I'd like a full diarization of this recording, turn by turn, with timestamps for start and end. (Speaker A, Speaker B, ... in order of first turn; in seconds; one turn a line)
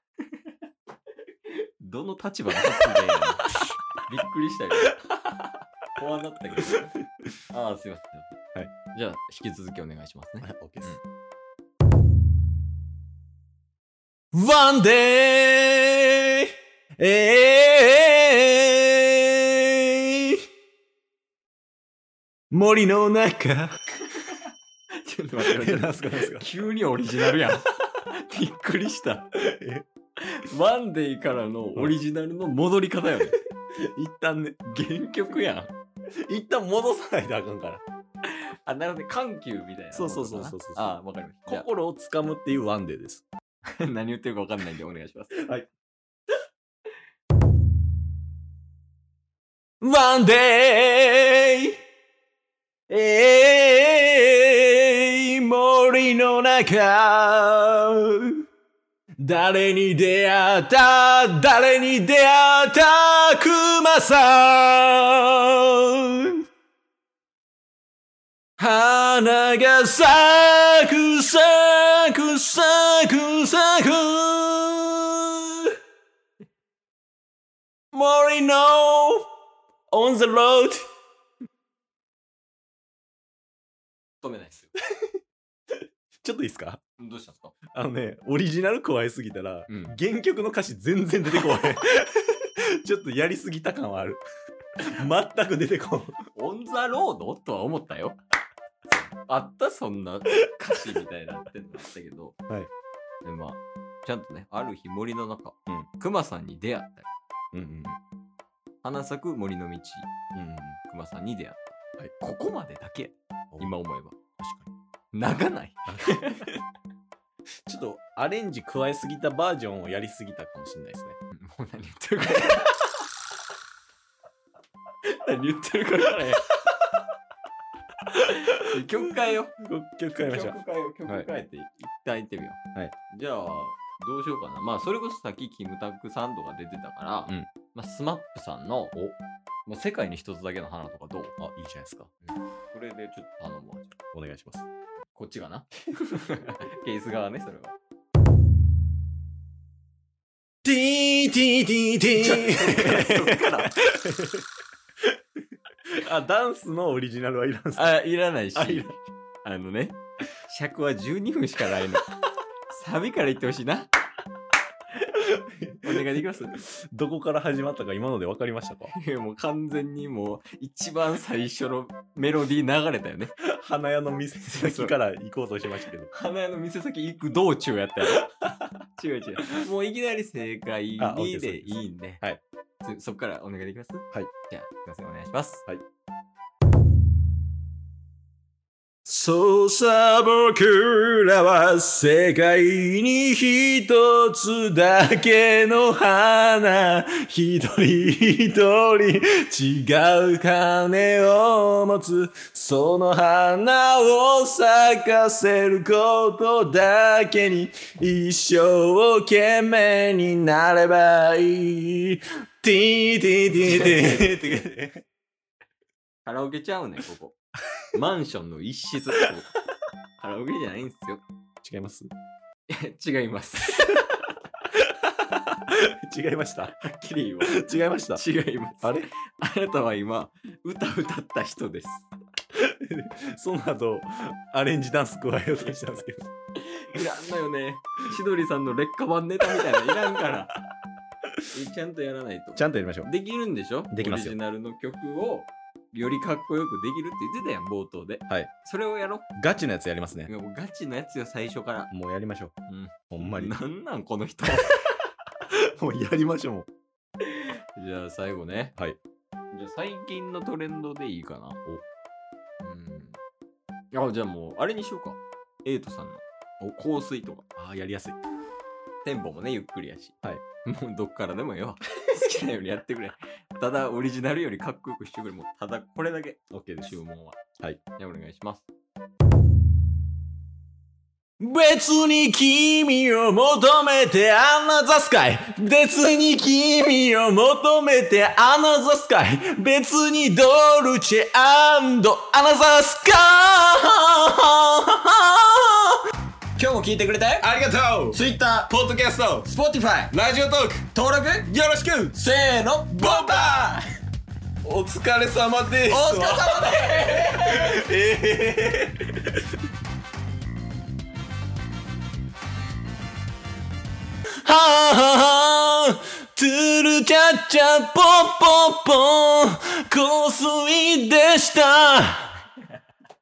Speaker A: 1.4-4.9
Speaker A: 6.0-6.9
Speaker A: 7.5-8.4
Speaker A: 8.9-11.0
Speaker B: 10.4-10.9
Speaker B: 14.3-20.4
Speaker B: 22.5-23.7
Speaker A: 25.0-29.3
Speaker B: 25.4-26.5
Speaker B: 29.4-29.8
Speaker A: 30.2-33.4
Speaker B: 33.7-34.7
Speaker A: 34.7-35.7
Speaker B: 36.2-37.8
Speaker A: 38.3-41.6
Speaker B: 39.9-40.9
Speaker B: 41.5-43.2
Speaker A: 43.8-45.5
Speaker B: 45.4-45.7
Speaker B: 49.8-51.7
Speaker B: 52.9-58.4
Speaker B: 59.2-66.3
Speaker B: 68.6-75.7
Speaker B: 77.9-79.2
Speaker B: 79.9-80.8
Speaker A: 84.2-84.7
Speaker B: 86.2-86.8
Speaker A: 87.0-87.5
Speaker B: 87.7-94.2
Speaker A: 89.7-89.9
Speaker B: 94.8-96.2
Speaker A: 96.3-98.2
Speaker A: 99.3-102.3
Speaker A: 103.2-107.1
Speaker B: 107.5-108.0
Speaker A: 108.8-110.1
Speaker B: 110.3-110.8
Speaker A: 110.9-114.1
Speaker B: 114.4-114.7
Speaker A: 115.1-116.5
Speaker B: 117.7-121.2
Speaker A: 121.3-122.9
Speaker A: 125.1-126.4
Speaker A: 128.3-129.6
Speaker B: 128.5-128.9
Speaker B: 129.6-131.3
Speaker A: 130.2-132.6
Speaker A: 133.1-138.9
Speaker A: 139.7-141.3
Speaker B: 141.4-142.1
Speaker A: 142.2-143.9
Speaker B: 144.1-144.7
Speaker A: 145.1-147.7
Speaker B: 150.6-154.4
Speaker A: 152.2-153.7
Speaker B: 155.9-158.0
Speaker A: 157.7-162.1
Speaker B: 158.5-158.9
Speaker A: 162.7-163.9
Speaker B: 165.0-168.9
Speaker A: 165.8-166.6
Speaker A: 168.9-173.3
Speaker B: 173.4-176.1
Speaker A: 174.5-174.9
Speaker A: 176.1-178.3
Speaker A: 178.9-182.2
Speaker B: 181.0-182.4
Speaker A: 182.8-185.7
Speaker B: 189.0-215.0
Speaker A: 213.6-214.6
Speaker A: 216.2-217.4
Speaker A: 217.9-219.5
Speaker A: 220.2-221.2
Speaker B: 221.6-222.1
Speaker A: 222.7-224.1
Speaker B: 224.8-226.7
Speaker A: 226.8-232.1
Speaker B: 227.5-228.2
Speaker B: 228.8-229.1
Speaker B: 232.5-236.2
Speaker A: 236.6-240.6
Speaker A: 241.5-249.2
Speaker B: 242.5-243.1
Speaker B: 243.9-244.4
Speaker B: 249.4-250.3
Speaker A: 250.3-251.9
Speaker B: 251.9-252.5
Speaker A: 252.7-254.7
Speaker B: 253.1-253.5
Speaker B: 255.8-256.7
Speaker A: 257.2-258.8
Speaker A: 259.5-261.6
Speaker A: 262.6-263.2
Speaker A: 263.9-267.4
Speaker B: 267.6-268.2
Speaker A: 269.0-277.4
Speaker B: 276.5-277.0
Speaker A: 278.0-278.7
Speaker B: 281.4-296.0
Speaker A: 296.6-297.4
Speaker B: 297.4-298.2
Speaker A: 298.1-298.9
Speaker B: 298.9-299.4
Speaker A: 299.4-300.2
Speaker B: 300.1-300.8
Speaker A: 300.9-303.8
Speaker B: 302.9-303.8
Speaker B: 304.6-309.4
Speaker A: 305.9-307.7
Speaker B: 314.4-322.4